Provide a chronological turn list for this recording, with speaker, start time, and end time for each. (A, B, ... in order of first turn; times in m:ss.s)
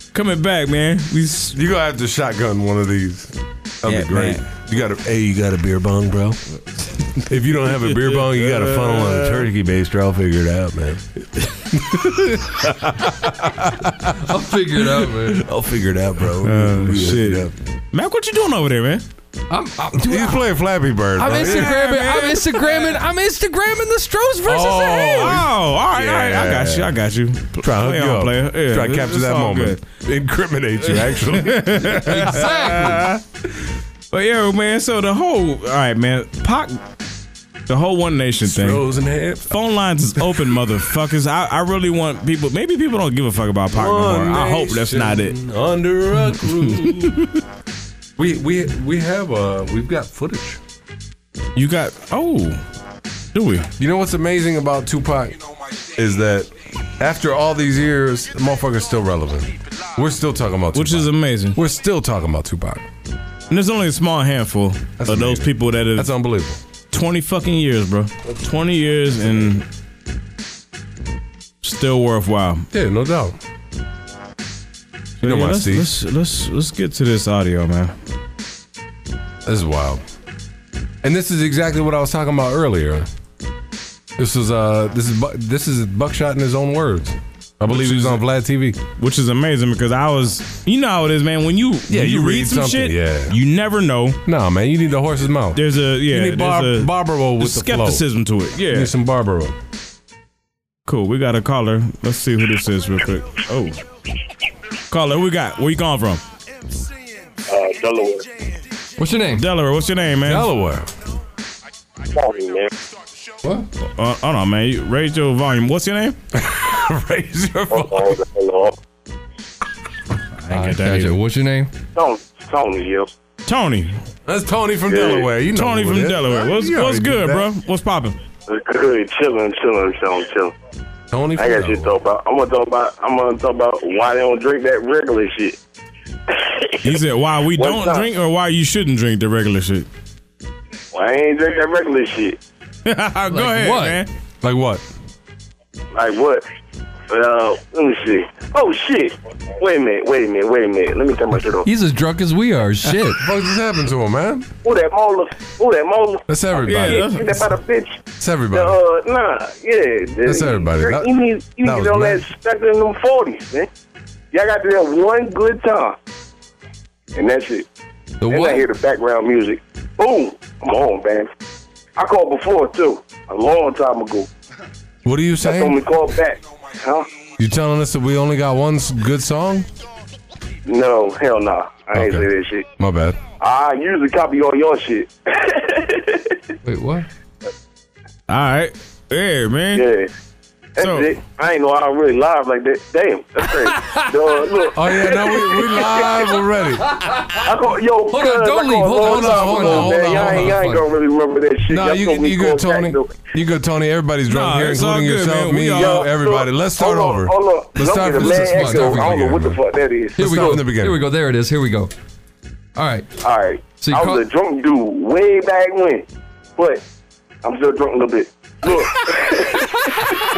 0:00.1-0:01.6 A
0:01.5-0:06.4 B
0:03.9-0:04.4 A
0:07.3-0:11.0 B
0:07.9-0:09.5 A
0:11.7-0:14.2 B
0:14.2-0:15.4 C
0:14.8-0:17.5 B
0:16.4-0:19.0 A
0:19.5-0:20.5 C
0:20.0-0:21.8 B
0:21.2-0:25.4 C
0:21.3-0:23.0 A
0:24.4-0:26.9 B
0:25.0-0:29.8 A
0:27.6-0:32.5 B
0:30.9-0:33.2 A
0:32.1-0:33.0 C
0:34.1-0:36.8 A
0:37.7-0:38.8 A
0:38.4-0:39.6 B
0:39.5-0:45.4 A
0:43.7-0:47.3 B
0:46.5-0:47.3 A
0:48.2-0:50.6 B
0:51.6-0:52.6 A
0:53.3-0:53.7 A
0:53.8-0:55.4 B
0:56.0-1:02.8 B
1:00.7-1:01.6 A
1:03.5-1:06.1 A
1:05.0-1:06.6 B
1:06.9-1:09.7 A
1:11.6-1:12.7 A
1:12.7-1:13.4 B
1:15.2-1:17.9 A
1:15.2-1:15.9 B
1:19.4-1:20.0 B
1:21.0-1:23.1 B
1:24.2-1:28.8 B
1:27.7-1:28.2 A
1:29.0-1:34.2 A
1:31.9-1:33.4 B
1:34.3-1:38.0 B
1:35.5-1:38.9 A
1:38.6-1:39.6 B
1:40.9-1:43.8 A
1:44.9-1:46.2 A
1:47.5-1:48.3 D
1:49.0-1:49.4 C
1:49.4-1:50.5 A
1:50.2-1:50.9 B
1:52.1-1:52.7 D
1:53.8-1:56.2 A
1:56.3-1:58.2 B
1:57.7-1:58.8 D
2:00.4-2:01.2 A
2:00.5-2:01.7 C
2:02.0-2:03.1 D
2:03.5-2:04.0 A
2:04.3-2:07.5 B
2:04.9-2:05.2 D
2:05.0-2:08.2 A
2:08.5-2:10.5 D
2:11.1-2:12.0 B
2:11.4-2:15.6 D
2:16.3-2:17.0 D
2:16.8-2:19.9 A
2:17.6-2:18.1 D
2:20.9-2:22.4 D
2:22.9-2:24.1 A
2:23.3-2:24.0 C
2:24.4-2:24.8 B
2:25.9-2:26.4 D
2:27.1-2:31.7 D
2:31.6-2:33.2 C
2:33.2-2:34.5 B
2:34.6-2:36.2 D
2:36.3-2:37.3 B
2:36.6-2:37.4 A
2:36.8-2:43.7 D
2:38.2-2:38.8 B
2:40.2-2:42.2 B
2:44.3-2:46.0 D
2:47.1-2:47.7 D
2:48.2-2:48.7 C
2:48.3-2:51.3 D
2:52.0-2:54.3 D
2:55.0-2:55.8 B
2:55.4-2:57.1 D
2:57.4-2:59.7 B
3:00.6-3:02.7 D
3:01.9-3:03.2 B
3:03.4-3:06.4 D
3:06.6-3:07.1 C
3:08.3-3:09.8 A
3:09.7-3:10.1 D
3:10.8-3:16.1 D
3:10.8-3:11.1 A
3:13.6-3:14.1 C
3:14.7-3:16.9 B
3:15.5-3:15.7 C
3:16.9-3:17.5 C
3:17.4-3:23.2 D
3:18.1-3:20.8 C
3:19.0-3:20.6 B
3:21.7-3:29.6 B
3:24.3-3:26.1 A
3:25.8-3:30.6 D
3:28.2-3:29.2 C
3:30.2-3:31.0 B
3:30.2-3:31.9 C
3:32.8-3:33.1 C
3:33.2-3:36.0 D
3:33.8-3:34.2 C
3:36.6-3:36.8 D
3:37.4-3:39.8 D